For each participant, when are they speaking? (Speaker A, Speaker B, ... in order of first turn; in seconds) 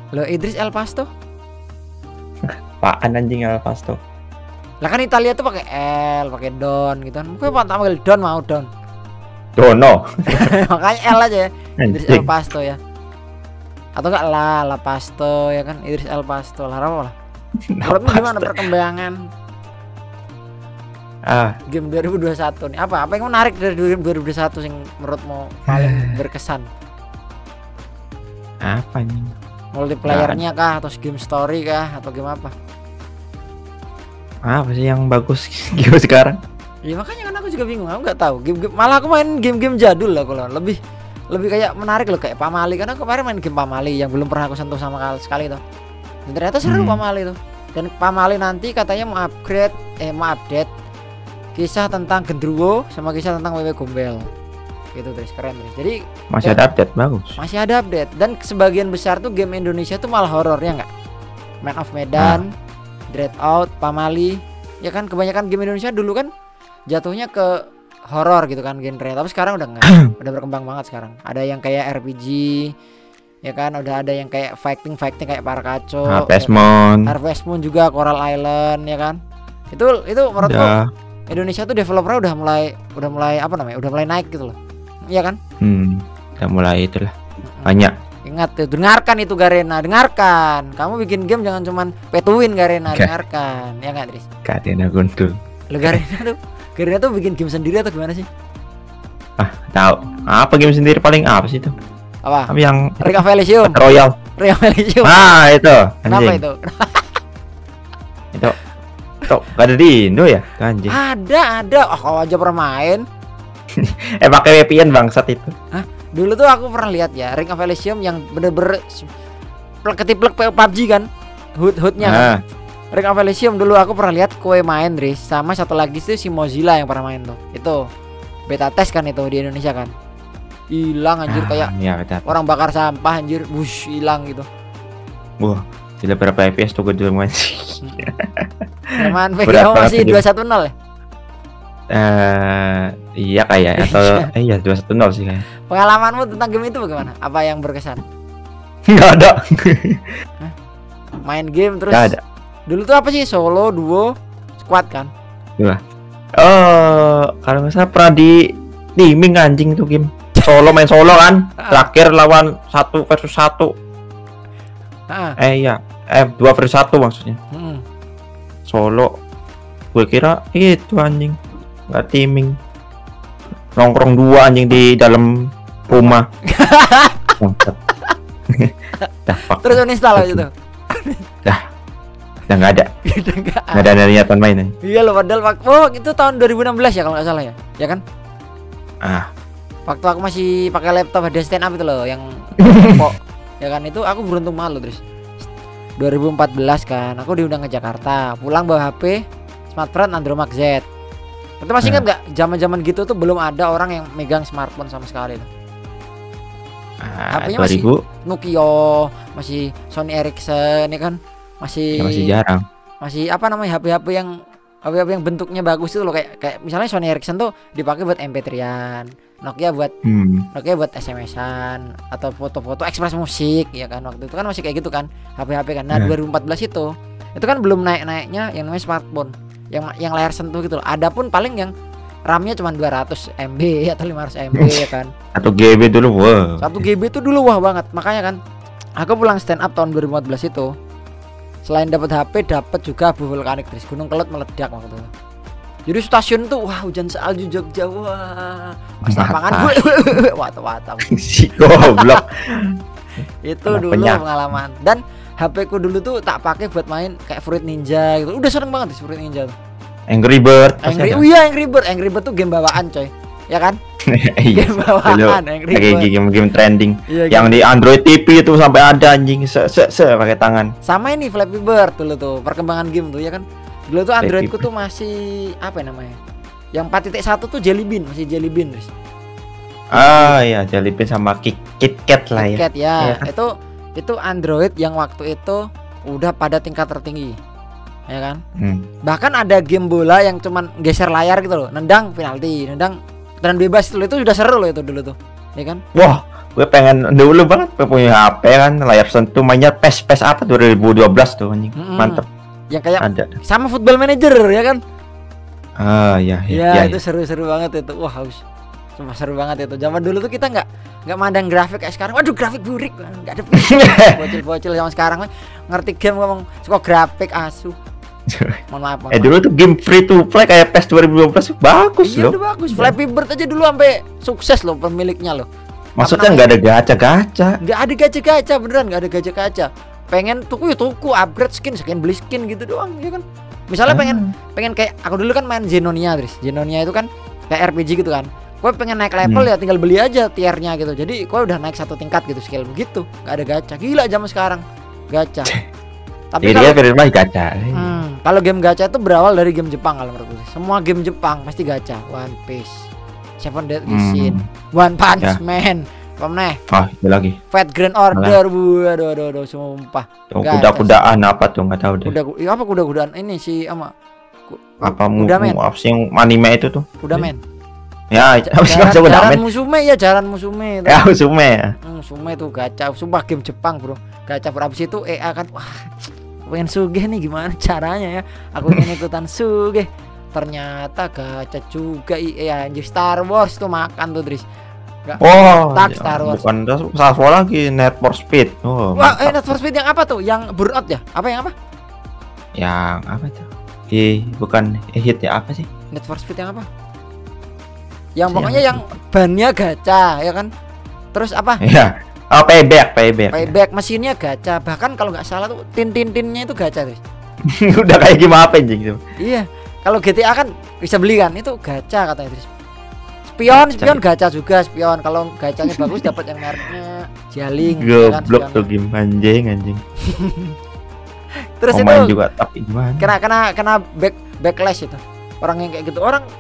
Speaker A: 0.1-1.1, 4.8-8.7, 10.3-12.8, 14.0-17.1, 17.8-19.2, 21.7-26.7, 29.7-32.5, 36.9-40.8, 41.3-45.6, 46.3-50.7, 51.5-54.3, 55.0-56.6, 57.4-60.9, 61.6-62.5, 63.1-66.3, 66.9-67.5, 68.1-72.7, 73.5-79.2, 79.7-80.7, 81.3-84.6, 85.1-85.4, 87.4-94.3, 95.7-98.3, 102.2-103.8, 104.4-105.3, 106.1-107.2, 110.9-113.0, 115.7-119.1, 119.8-121.1, 121.6-122.3, 122.9-127.8, 128.5-129.9, 130.7-131.7, 132.3-134.4, 137.8-138.1, 139.0-140.7, 143.8-144.3, 145.7-148.0, 151.2-152.2, 152.7-155.1, 160.4-160.8, 161.6-161.9, 165.1-165.4, 167.5-167.8, 176.5-177.4, 179.6-181.3, 183.1-183.9, 184.8-188.0, 189.9-195.0, 196.0-199.2, 199.7-200.8, 201.6-205.5, 207.3-212.3, 213.0-214.3, 214.8-219.9, 220.5-231.7, 232.3-235.1, 236.6-238.4, 239.0-240.7, 241.6-245.1, 245.9-251.1, 251.7-252.2, 253.5-259.6, 260.8-263.8, 264.5-266.1, 267.1-267.6, 270.9-276.2, 276.8-278.9, 279.9-280.4, 282.4-287.4, 288.1-288.4, 289.1-295.8, 301.8-304.8, 306.5-308.4, 309.0-317.8, 318.7-319.3, 322.0-325.5, 326.0-326.4, 327.6-345.6, 346.3-346.8, 347.8-352.9, 353.4-356.6, 357.5-361.1, 362.1-363.9, 364.5-365.6, 367.0-367.4, 368.4-371.0, 371.8-384.4, 385.1-386.4, 388.9-391.5, 395.9-396.7, 398.2-400.5, 401.1-401.6, 403.3-407.0, 409.2-412.5, 413.3-418.7, 420.1-420.6, 421.6-422.1, 423.0-426.2
Speaker B: 2.5-4.0, 9.6-10.5, 11.8-12.3, 17.7-18.6, 21.3-21.6, 25.7-26.1, 28.6-29.4, 30.1-30.4, 34.5-36.4, 46.6-47.0, 56.3-57.4, 62.2-62.4, 76.1-77.1, 80.4-80.9, 85.6-87.1, 87.7-87.9, 94.5-96.0, 99.4-101.7, 102.5-104.2, 105.0-106.4, 108.3-108.6, 109.3-111.0, 113.8-115.5, 122.0-122.4, 131.3-132.3, 135.4-140.2, 141.9-145.5, 148.9-150.1, 151.9-152.2, 156.4-158.4, 159.0-163.7, 165.4-167.4, 168.7-169.1, 169.9-171.4, 171.9-172.6, 173.8-176.3, 177.4-177.8, 179.3-180.4, 182.5-182.9, 183.7-184.8, 189.0-189.3, 192.7-193.0, 207.0-208.0, 212.0-212.6, 220.0-220.5, 234.6-234.8, 235.3-236.8, 249.1-249.8, 251.1-252.8, 253.7-254.2, 260.1-261.2, 264.1-270.7, 274.2-274.7, 279.9-283.3, 288.6-288.9, 295.9-302.3, 303.0-303.4, 305.8-307.0, 313.6-314.3, 318.3-318.6, 319.1-323.0, 326.0-327.6, 333.9-334.3, 339.2-339.5, 346.4-348.0, 353.9-354.5, 356.7-357.4, 358.1-358.4, 360.3-362.1, 364.8-367.3, 368.1-369.4, 370.9-371.8, 385.2-389.4, 392.6-395.7, 398.3-398.8, 401.6-403.5, 407.5-409.0, 413.5-414.0, 415.7-416.1, 417.6-419.8, 421.7-423.1